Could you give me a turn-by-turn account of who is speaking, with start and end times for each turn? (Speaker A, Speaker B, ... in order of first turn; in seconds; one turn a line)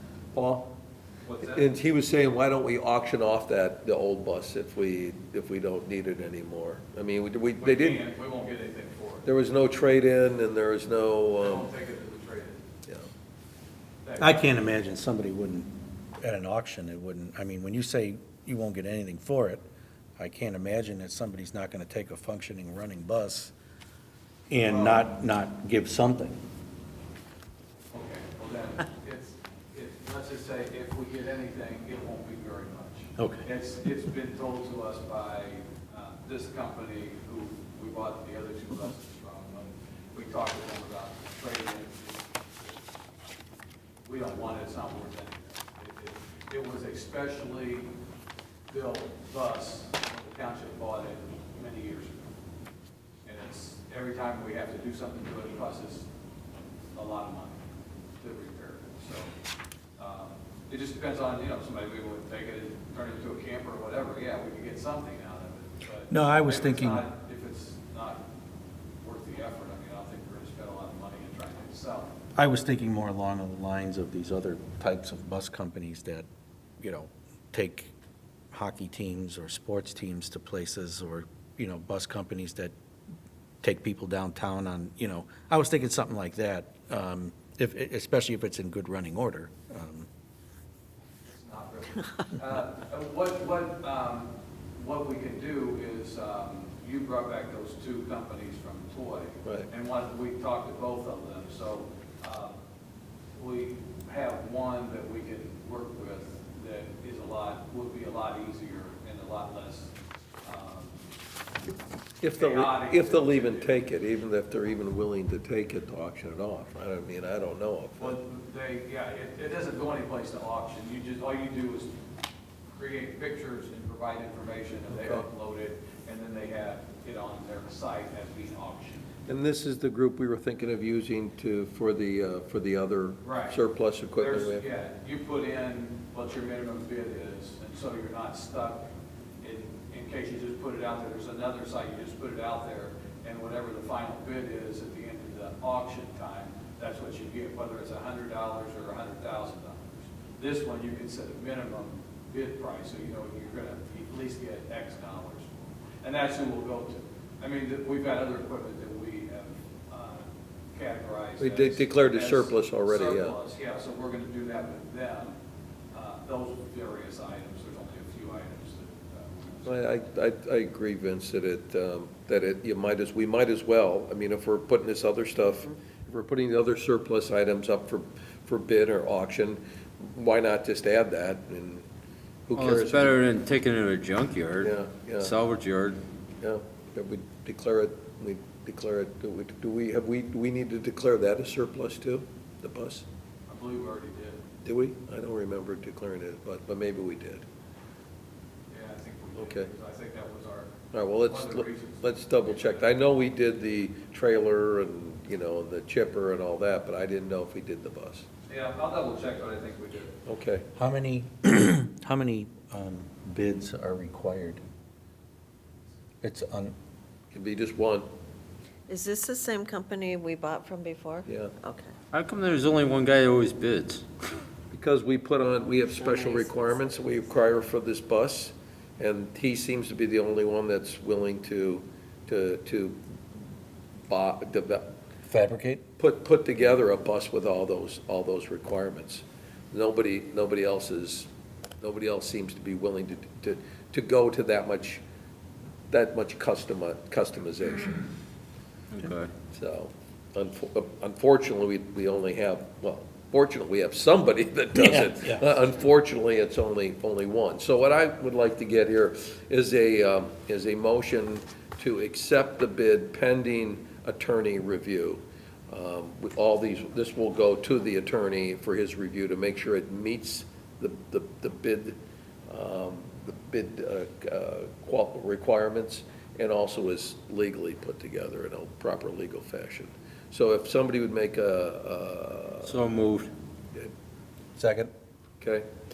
Speaker A: 0.3-0.7
Speaker B: 1.2-1.7
Speaker A: 1.4-8.0
Speaker B: 7.6-9.3
Speaker A: 9.2-11.7
Speaker B: 11.4-12.6
Speaker B: 14.0-14.4
Speaker C: 14.2-19.6
Speaker C: 20.2-23.5
Speaker C: 24.5-26.4
Speaker B: 24.6-25.1
Speaker B: 27.9-42.8
Speaker C: 33.2-33.4
Speaker B: 44.0-47.9
Speaker B: 48.7-52.2
Speaker B: 53.2-56.1
Speaker B: 56.9-57.6
Speaker B: 58.2-59.3
Speaker B: 60.0-68.2
Speaker C: 66.1-67.0
Speaker B: 69.0-72.1
Speaker C: 72.3-76.2
Speaker C: 76.8-77.9
Speaker C: 78.5-82.7
Speaker C: 83.6-90.1
Speaker B: 91.2-102.6
Speaker B: 103.3-109.9
Speaker B: 110.4-110.9
Speaker A: 112.2-118.2
Speaker B: 112.3-113.8
Speaker B: 118.0-121.9
Speaker B: 122.7-129.1
Speaker A: 125.0-125.2
Speaker A: 129.3-134.6
Speaker B: 133.2-133.6
Speaker B: 134.2-138.8
Speaker B: 139.4-165.3
Speaker A: 161.4-163.4
Speaker B: 165.9-169.8
Speaker A: 169.7-181.8
Speaker A: 182.5-183.2
Speaker D: 182.6-186.0
Speaker A: 184.6-185.3
Speaker A: 186.4-193.0
Speaker B: 193.5-194.4
Speaker A: 194.6-197.4
Speaker B: 198.7-200.7
Speaker A: 199.4-199.7
Speaker A: 200.9-208.2
Speaker B: 201.3-202.9
Speaker B: 208.5-210.2
Speaker A: 210.2-210.7
Speaker C: 210.8-214.6
Speaker C: 216.2-216.7
Speaker A: 217.3-218.0
Speaker E: 218.9-221.9
Speaker A: 221.2-221.6
Speaker D: 222.1-224.0
Speaker A: 224.7-233.0
Speaker A: 234.1-234.9
Speaker C: 235.3-235.8
Speaker A: 236.0-241.3
Speaker A: 241.8-245.0
Speaker A: 245.9-248.1
Speaker D: 248.9-249.3
Speaker A: 249.5-282.8
Speaker C: 254.7-255.5
Speaker D: 282.6-283.3
Speaker C: 284.6-284.9
Speaker A: 285.4-285.6